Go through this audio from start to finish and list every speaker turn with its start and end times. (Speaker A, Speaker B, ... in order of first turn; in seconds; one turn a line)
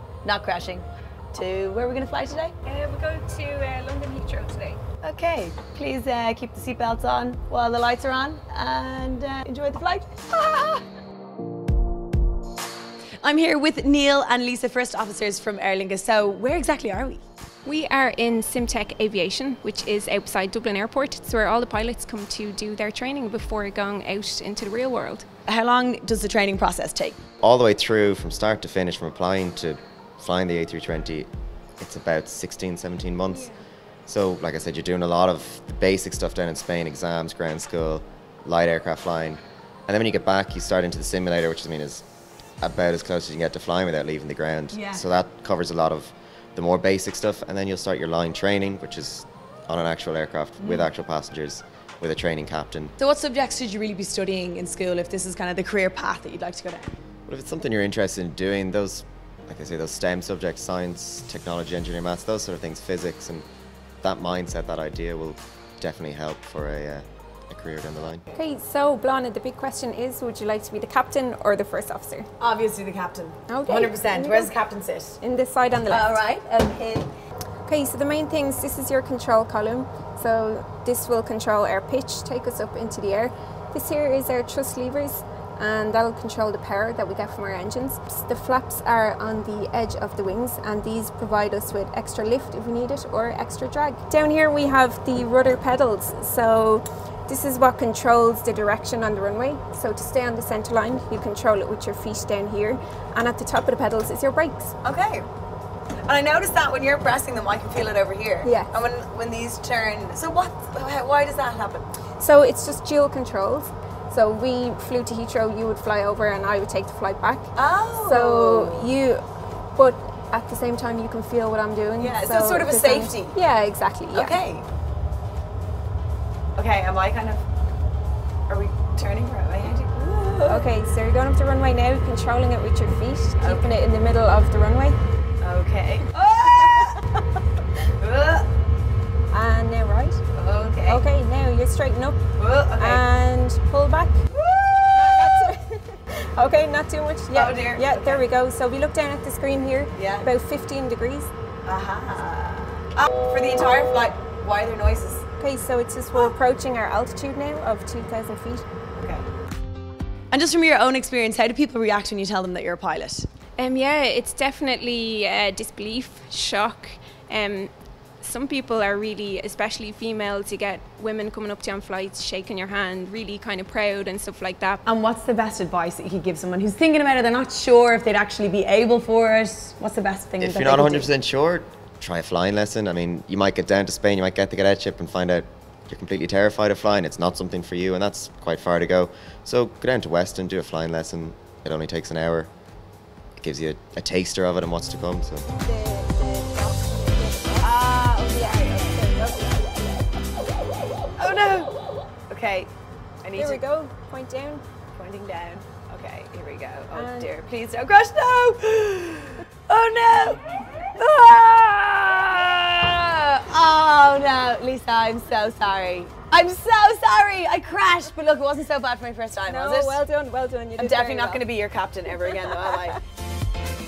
Speaker A: 0.2-2.5
Speaker B: 2.6-4.8
Speaker A: 5.0-10.8
Speaker A: 13.2-17.2
Speaker B: 17.6-25.3
Speaker A: 25.5-27.2
Speaker C: 27.4-33.5
Speaker B: 33.3-33.5
Speaker C: 34.0-42.0
Speaker C: 42.6-52.9
Speaker A: 44.7-45.0
Speaker A: 50.6-50.9
Speaker A: 53.0-57.0
Speaker C: 57.3-63.5
Speaker C: 64.0-68.2
Speaker B: 68.3-72.3
Speaker A: 72.4-75.2
Speaker B: 73.5-74.5
Speaker B: 75.2-76.1
Speaker A: 75.9-77.1
Speaker B: 77.7-104.7
Speaker A: 104.8-105.2
Speaker A: 106.0-111.8
Speaker B: 108.4-108.7
Speaker B: 112.2-117.5
Speaker A: 117.5-118.9
Speaker B: 118.0-119.2
Speaker B: 119.8-124.4
Speaker A: 122.0-123.3
Speaker A: 124.1-124.7
Speaker A: 126.5-127.4
Speaker A: 128.5-130.7
Speaker B: 130.4-135.0
Speaker A: 133.4-133.7
Speaker A: 135.4-137.0
Speaker B: 136.2-137.0
Speaker A: 138.0-138.5
Speaker B: 139.3-140.2
Speaker A: 140.3-141.0
Speaker B: 140.8-142.2
Speaker A: 142.4-143.0
Speaker B: 142.8-144.2
Speaker A: 144.3-145.5
Speaker B: 144.9-151.3
Speaker A: 147.3-148.2
Speaker A: 149.9-150.3
Speaker A: 151.7-155.3
Speaker B: 155.4-158.6
Speaker A: 158.9-159.2
Speaker A: 160.3-163.3
Speaker B: 163.6-174.8
Speaker A: 174.8-181.1
Speaker C: 180.4-192.5
Speaker C: 193.4-195.5
Speaker B: 195.6-199.8
Speaker A: 197.6-199.5
Speaker A: 201.2-201.7
Speaker A: 202.3-202.7
Speaker A: 203.2-203.6
Speaker B: 203.3-204.6
Speaker A: 204.9-220.0
Speaker B: 206.9-207.3
Speaker B: 219.4-221.4
Speaker A: 220.8-223.0